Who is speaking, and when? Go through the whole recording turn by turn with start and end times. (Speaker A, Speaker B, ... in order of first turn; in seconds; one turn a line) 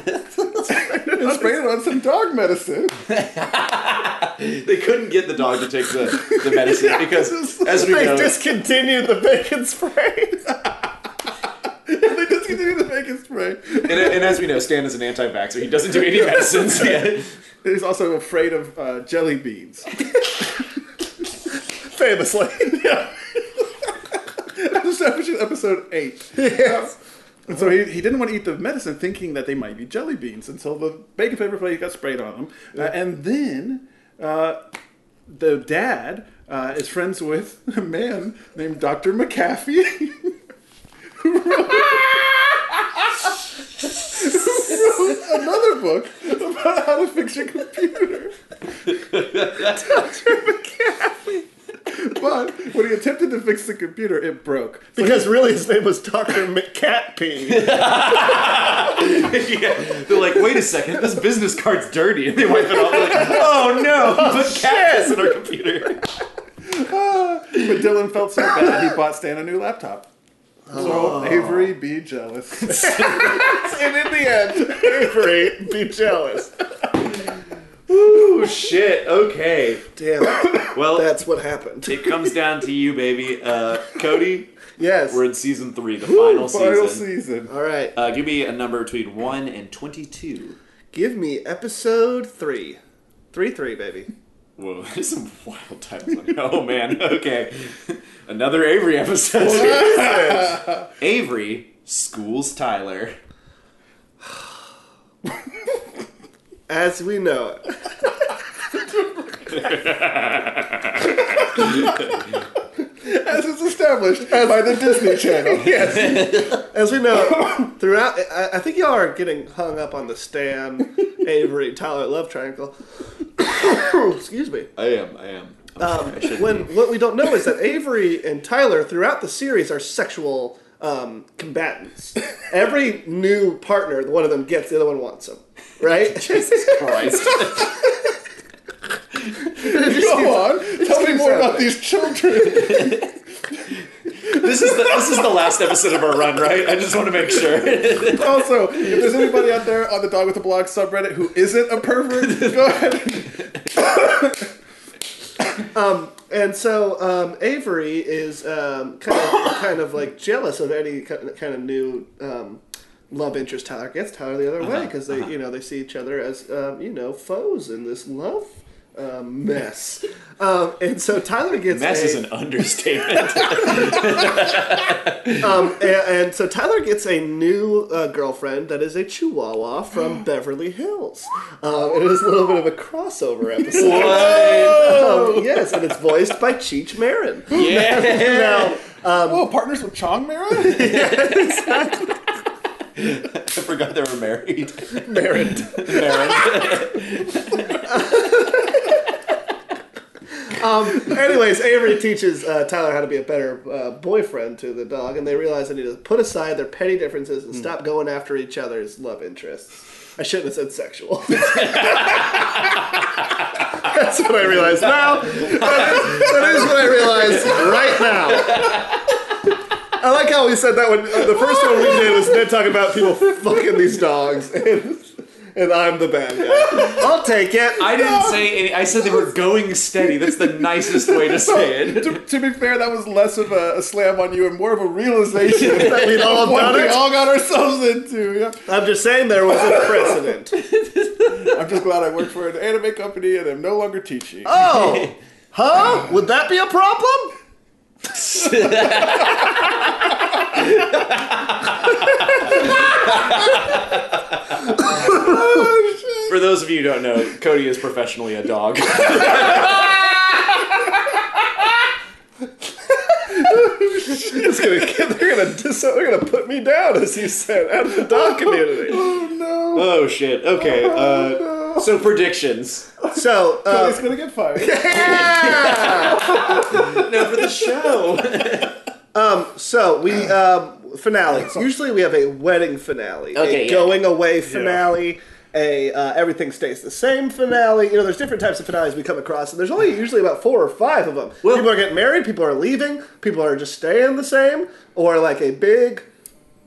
Speaker A: 0.5-1.6
Speaker B: 0.7-3.0
Speaker C: 3.1-8.4
Speaker B: 7.1-7.6
Speaker A: 7.6-10.4
Speaker B: 11.9-14.4
Speaker C: 13.8-17.3
Speaker B: 16.1-17.1
Speaker B: 17.6-19.9
Speaker A: 21.9-22.9
Speaker B: 22.7-26.9
Speaker A: 26.3-26.9
Speaker B: 27.5-34.6
Speaker B: 35.3-40.3
Speaker B: 41.2-43.2
Speaker B: 44.0-48.4
Speaker C: 48.9-49.9
Speaker A: 49.6-51.4
Speaker B: 51.9-55.4
Speaker A: 55.0-57.8
Speaker C: 57.5-66.0
Speaker A: 63.1-65.4
Speaker B: 66.6-70.1
Speaker C: 67.5-67.8
Speaker A: 70.7-71.5
Speaker C: 70.7-71.7
Speaker B: 70.7-72.9
Speaker C: 72.6-73.7
Speaker A: 72.7-76.5
Speaker C: 77.9-79.9
Speaker A: 80.0-82.0
Speaker C: 80.6-81.1
Speaker C: 81.8-87.0
Speaker A: 84.8-85.2
Speaker B: 86.0-87.5
Speaker A: 87.5-87.9
Speaker C: 87.9-90.6
Speaker A: 90.9-92.8
Speaker A: 93.3-94.1
Speaker C: 94.6-103.2
Speaker B: 99.4-100.8
Speaker A: 99.6-100.6
Speaker A: 106.7-107.7
Speaker C: 109.5-112.2
Speaker B: 113.0-115.9
Speaker A: 114.3-122.8
Speaker C: 115.7-116.6
Speaker A: 123.4-124.7
Speaker C: 124.8-126.7
Speaker A: 125.8-137.1
Speaker C: 136.1-137.9
Speaker A: 139.5-141.8
Speaker B: 139.6-143.0
Speaker C: 142.4-143.1
Speaker C: 144.2-149.2
Speaker B: 144.3-145.0
Speaker B: 148.1-154.5
Speaker C: 152.2-153.6
Speaker A: 155.7-172.2
Speaker C: 164.6-165.3
Speaker C: 171.7-175.5
Speaker A: 175.4-189.4
Speaker C: 183.7-185.0
Speaker B: 183.7-185.5
Speaker C: 187.5-188.8
Speaker B: 187.5-188.2
Speaker B: 189.2-190.9
Speaker A: 190.6-192.2
Speaker C: 190.7-191.7
Speaker C: 192.9-197.9
Speaker A: 195.0-196.3
Speaker A: 197.8-198.9
Speaker A: 200.4-212.4
Speaker C: 211.4-212.3
Speaker A: 213.7-218.8
Speaker C: 215.2-218.9
Speaker A: 220.0-227.9
Speaker B: 221.6-222.2
Speaker B: 226.5-227.1
Speaker C: 227.8-232.2
Speaker B: 227.9-228.5
Speaker B: 230.2-238.7
Speaker C: 235.6-236.4
Speaker A: 235.6-237.1
Speaker A: 238.7-240.6
Speaker C: 240.6-241.6
Speaker B: 241.4-244.6
Speaker A: 244.4-247.3
Speaker C: 244.6-245.1
Speaker C: 248.1-254.8
Speaker B: 254.9-256.3
Speaker A: 255.1-255.3
Speaker C: 256.3-260.2
Speaker A: 263.0-269.0
Speaker B: 263.6-264.7
Speaker B: 268.1-269.9
Speaker C: 269.7-272.9
Speaker B: 270.6-271.4
Speaker A: 273.1-276.5
Speaker B: 273.1-276.9
Speaker C: 275.0-278.7
Speaker A: 279.1-296.0
Speaker C: 283.3-284.1
Speaker B: 284.4-284.9